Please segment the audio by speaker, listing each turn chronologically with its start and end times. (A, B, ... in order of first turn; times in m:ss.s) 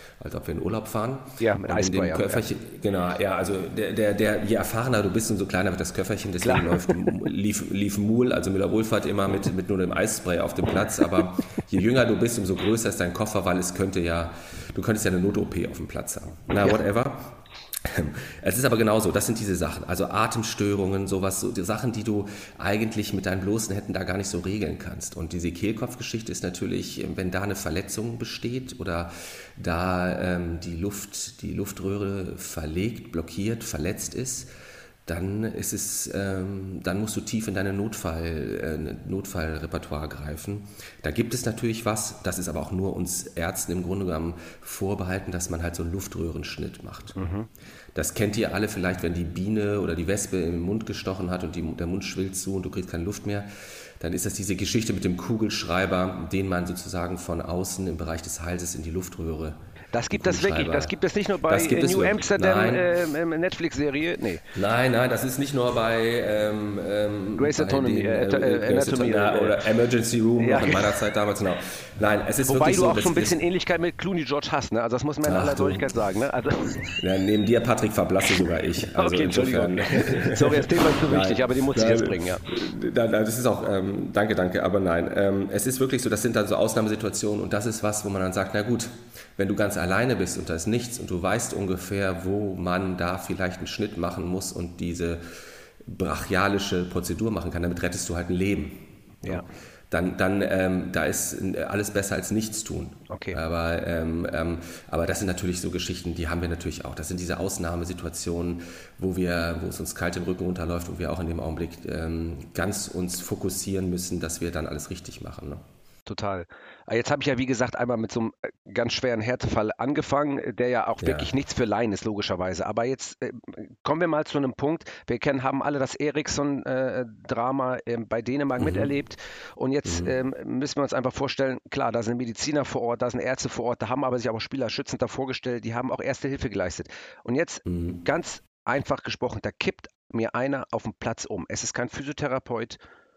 0:00.2-0:34.5 A
0:01.4-0:02.4 B
0:06.4-0:06.9 B
0:35.1-0:47.2 A
0:47.2-0:47.5 B
0:48.0-0:59.6 A
0:59.9-1:04.4 B
1:00.1-1:02.9 A
1:04.5-1:13.4 A
1:07.4-1:09.7 B
1:10.4-1:11.0 B
1:12.4-1:17.0 B
1:15.2-1:15.8 A
1:17.0-1:35.2 A
1:19.0-1:22.5 B
1:35.8-1:55.6 A
1:43.1-1:43.4 B
1:56.1-2:22.8 B
2:01.0-2:01.3 A
2:08.6-2:08.9 A
2:09.9-2:10.1 A
2:17.7-2:18.0 A